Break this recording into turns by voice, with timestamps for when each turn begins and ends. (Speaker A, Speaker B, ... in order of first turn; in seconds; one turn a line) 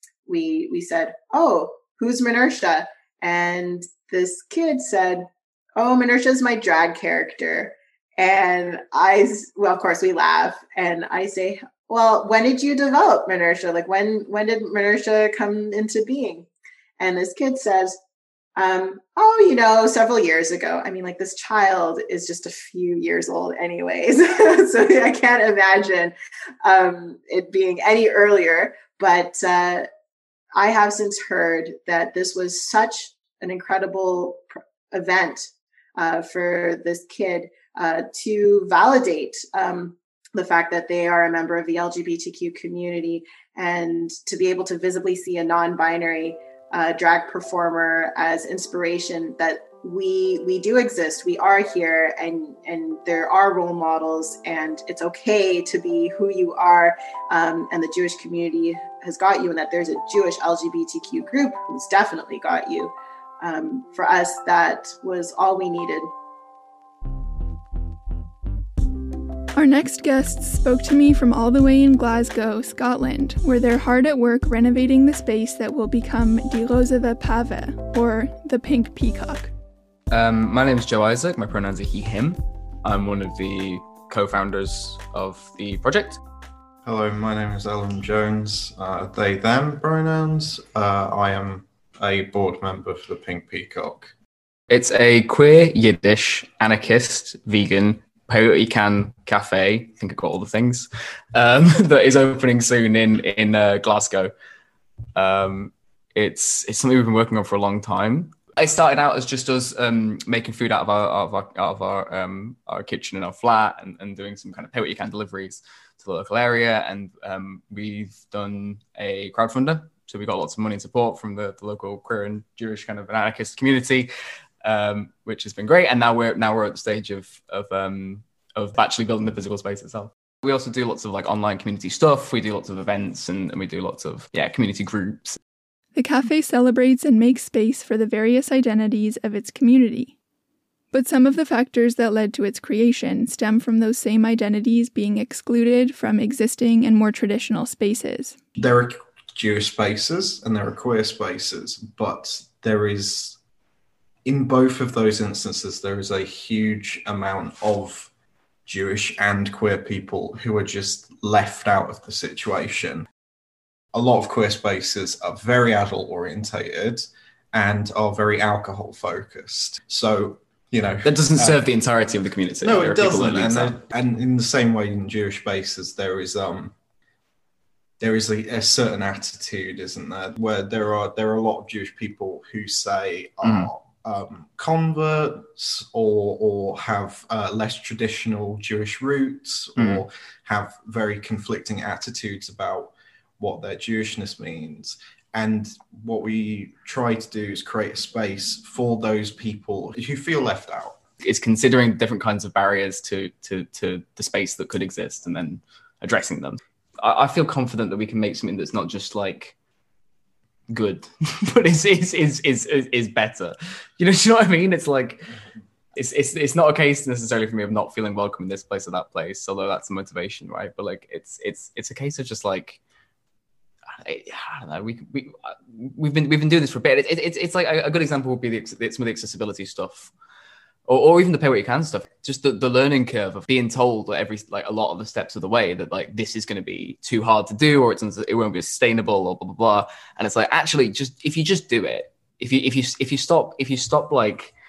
Speaker A: 0.3-16.5
Speaker A: 17.0-18.0
Speaker A: 18.6-29.9
Speaker A: 30.6-66.1
Speaker B: 69.5-79.5
Speaker C: 80.1-86.2
Speaker D: 86.8-94.1
Speaker C: 94.7-104.3
Speaker C: 105.2-124.1
Speaker C: 124.6-135.4
Speaker B: 135.9-140.1
Speaker B: 140.9-148.4
Speaker D: 148.6-153.4
Speaker D: 154.2-158.1
Speaker D: 158.7-163.1
Speaker D: 163.9-171.6
Speaker C: 171.1-173.7
Speaker D: 172.6-176.7
Speaker D: 178.0-201.0
Speaker C: 183.4-183.7
Speaker C: 189.8-190.0
Speaker C: 201.2-209.6
Speaker C: 210.7-215.3
Speaker C: 215.9-222.8
Speaker C: 223.9-230.1
Speaker C: 230.9-244.5